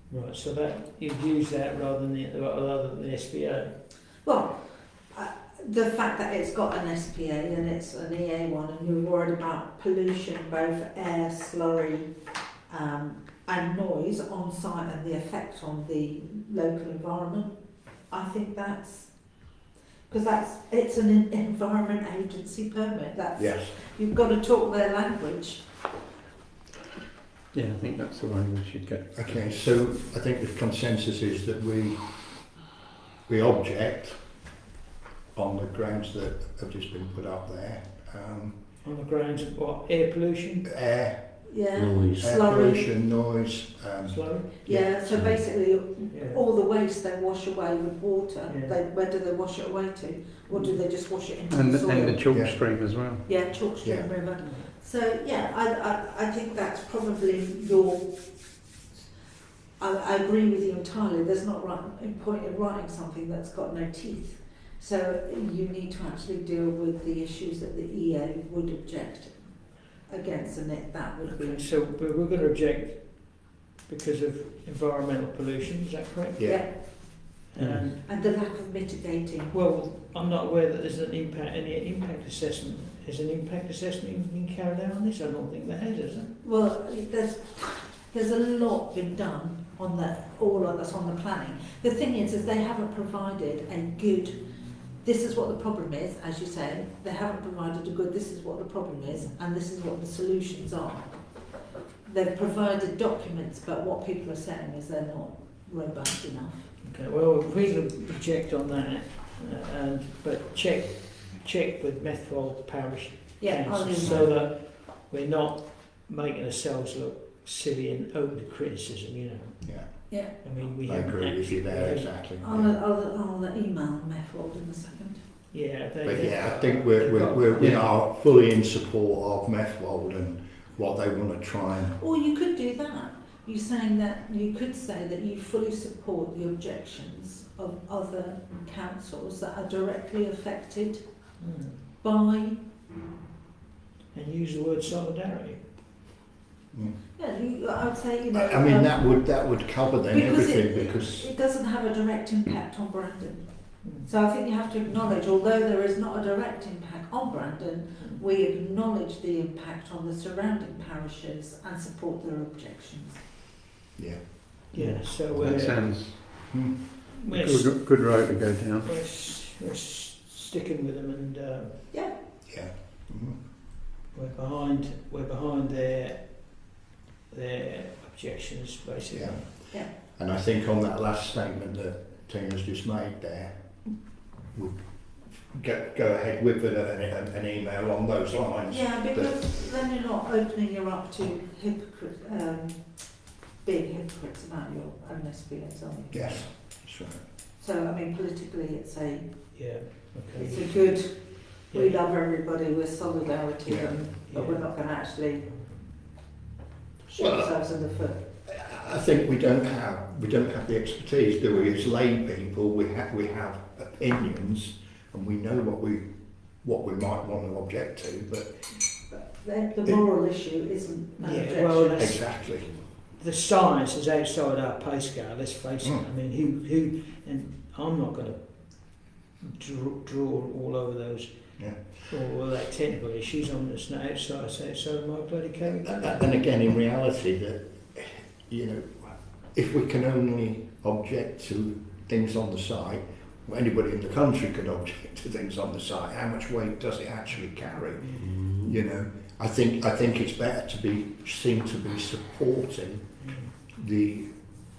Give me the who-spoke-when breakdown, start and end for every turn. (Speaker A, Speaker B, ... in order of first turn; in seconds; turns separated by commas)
Speaker A: 0.1-3.7, Speaker B: 4.2-4.6, Speaker B: 5.1-12.1, Speaker B: 12.7-17.5, Speaker B: 18.1-19.1, Speaker B: 20.1-25.6, Speaker C: 23.4-23.7, Speaker D: 27.5-29.4, Speaker C: 29.1-32.0, Speaker C: 33.3-34.2, Speaker C: 35.3-38.5, Speaker A: 38.8-40.7, Speaker C: 40.7-41.2, Speaker B: 41.5-42.9, Speaker D: 41.8-42.2, Speaker C: 42.1-45.3, Speaker A: 44.0-44.5, Speaker B: 44.6-52.4, Speaker A: 46.1-46.4, Speaker A: 48.5-48.8, Speaker A: 50.5-50.8, Speaker D: 51.5-53.2, Speaker C: 52.3-52.6, Speaker B: 53.2-58.1, Speaker C: 53.8-54.1, Speaker A: 54.4-54.7, Speaker B: 59.8-69.5, Speaker B: 70.1-71.7, Speaker A: 71.2-78.0, Speaker C: 76.4-76.6, Speaker B: 76.4-77.4, Speaker D: 77.6-77.8, Speaker B: 78.0-79.5, Speaker A: 79.5-86.3, Speaker B: 86.4-94.3, Speaker B: 95.0-101.1, Speaker B: 102.0-106.7, Speaker A: 106.8-122.1, Speaker B: 113.4-114.3, Speaker C: 119.6-120.1, Speaker B: 120.1-120.3, Speaker C: 120.8-122.7, Speaker B: 122.4-125.2, Speaker A: 125.5-127.8, Speaker C: 126.0-132.0, Speaker D: 127.6-127.8, Speaker B: 132.0-141.0, Speaker A: 141.4-141.8, Speaker B: 142.0-142.6, Speaker A: 144.1-145.6, Speaker C: 146.7-147.0, Speaker B: 147.2-163.2, Speaker C: 148.3-151.3, Speaker A: 164.7-165.8, Speaker D: 164.7-166.5, Speaker C: 166.5-166.8, Speaker A: 167.1-167.8, Speaker D: 167.3-168.9, Speaker A: 168.8-171.8, Speaker C: 172.5-173.4, Speaker A: 174.1-176.5, Speaker A: 177.3-179.4, Speaker C: 179.1-183.7, Speaker C: 185.4-189.3, Speaker B: 188.7-192.8, Speaker B: 193.6-196.5, Speaker C: 196.1-197.2, Speaker B: 197.6-199.2, Speaker A: 199.5-200.9, Speaker B: 200.3-205.5, Speaker C: 203.7-204.0, Speaker A: 204.3-204.8, Speaker A: 205.5-205.7, Speaker B: 207.1-208.2, Speaker C: 207.2-207.6, Speaker C: 208.4-216.1, Speaker C: 216.6-218.5, Speaker B: 219.1-222.2, Speaker A: 221.2-222.4, Speaker C: 222.0-222.8, Speaker A: 223.1-228.4, Speaker A: 229.4-231.3, Speaker A: 231.8-236.2, Speaker C: 235.8-253.0, Speaker A: 248.0-248.3, Speaker A: 253.2-253.5, Speaker C: 253.8-254.3